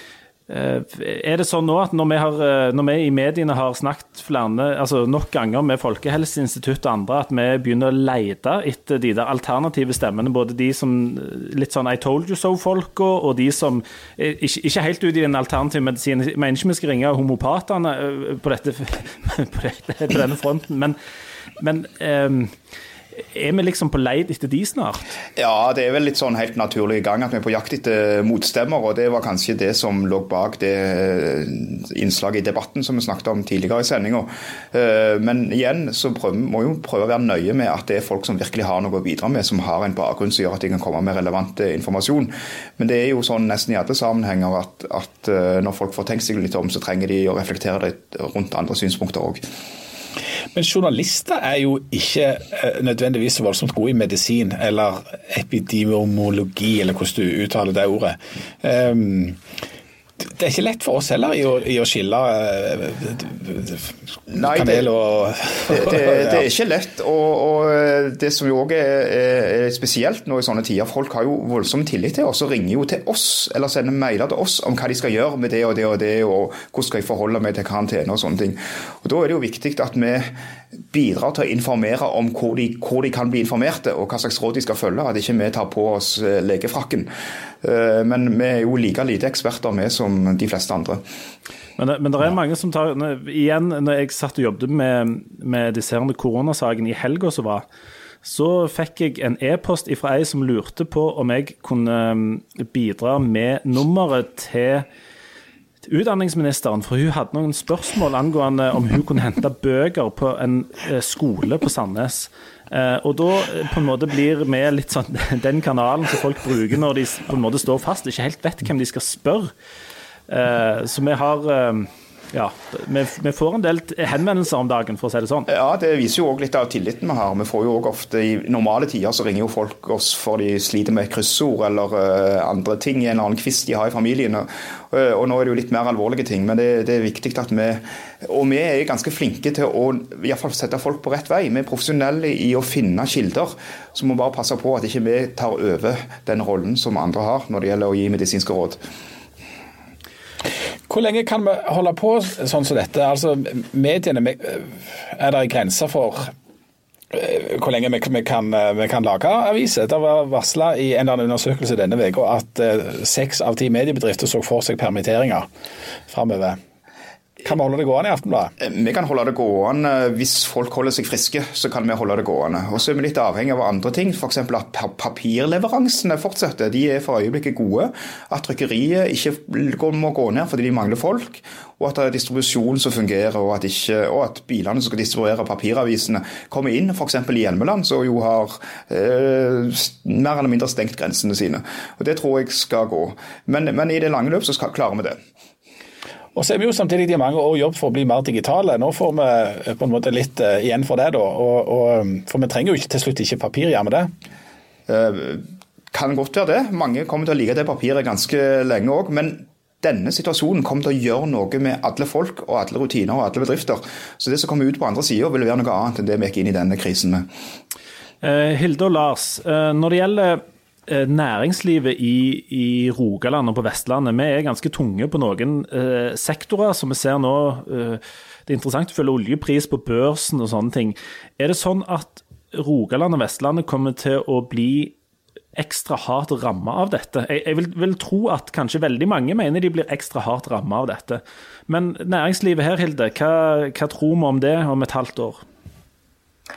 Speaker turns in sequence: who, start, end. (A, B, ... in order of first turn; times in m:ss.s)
0:00.5-0:21.0 A
0:21.6-0:22.5 A
0:23.2-0:25.1 A
0:25.4-0:49.4 B
0:50.5-0:59.4 C
1:00.2-1:06.4 C
1:04.3-1:04.9 B
1:05.7-1:20.3 B
1:20.9-1:27.1 B
1:27.6-1:31.0 B
1:31.8-1:37.6 A
1:38.2-1:44.8 A
1:45.8-1:59.5 A
2:00.3-2:05.5 A
2:05.5-2:28.8 B
2:30.9-2:36.3 C
2:37.1-2:45.5 C
2:46.1-2:46.6 C
2:47.4-2:48.5 C
2:48.6-3:15.2 B
3:16.3-3:24.1 C
3:24.9-3:37.3 B
3:38.2-3:55.0 A
3:55.6-4:05.4 A